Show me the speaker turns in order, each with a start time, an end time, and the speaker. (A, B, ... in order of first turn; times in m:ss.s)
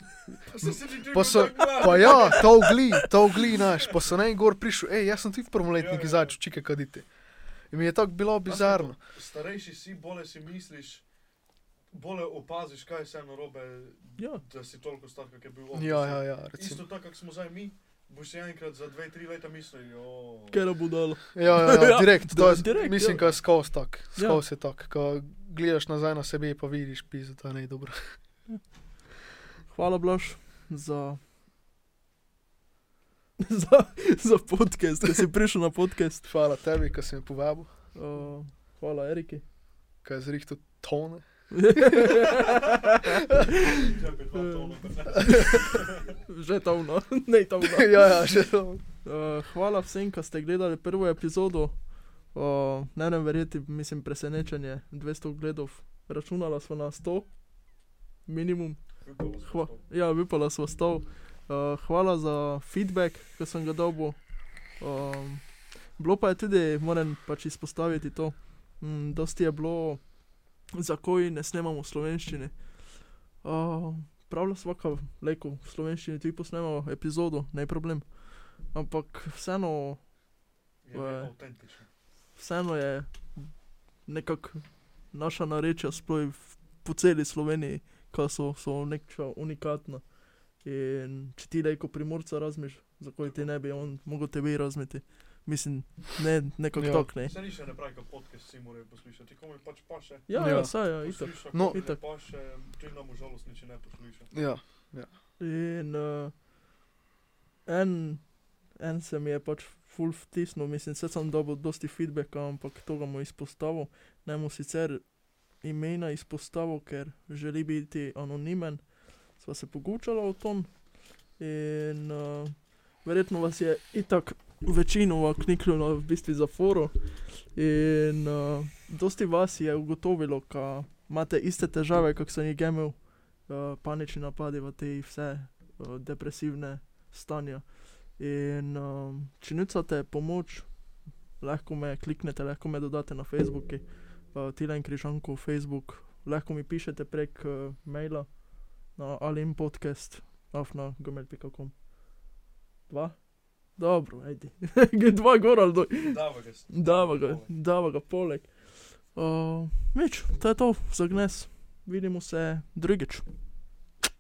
0:00.3-0:07.1 A
0:00.4-0:03.1 B
0:05.7-0:06.4 B
0:07.7-0:09.0 A
0:08.5-0:11.0 B
0:11.9-0:20.6 B
0:15.7-0:16.8 A
0:20.5-0:23.2 C
0:21.3-0:28.1 A
0:24.2-0:24.4 C
0:29.7-0:31.2 C
0:33.4-0:36.2 C
0:36.2-0:37.7 A
0:37.9-0:39.4 C
0:40.0-0:42.2 A
0:41.5-0:48.2 C
0:43.5-0:46.2 B
0:47.6-0:48.8 A
0:49.0-0:57.4 C
0:58.2-1:04.2 C
0:59.0-0:59.8 B
1:04.8-1:10.0 C
1:10.7-1:12.7 C
1:13.4-1:20.0 C
1:20.8-1:21.9 B
1:20.9-1:21.3 C
1:22.4-1:23.5 C
1:24.0-1:30.1 C
1:30.6-1:37.3 C
1:33.2-1:33.5 B
1:36.8-1:37.0 A
1:37.2-1:44.3 B
1:40.3-1:42.0 C
1:40.3-1:40.8 A
1:41.5-1:41.8 A
1:44.3-1:45.1 A
1:45.4-1:46.3 C
1:47.7-2:20.8 C
2:21.4-2:31.8 C
2:32.9-2:33.2 C
2:33.7-2:36.2 C
2:36.0-2:37.5 B
2:36.7-2:43.2 C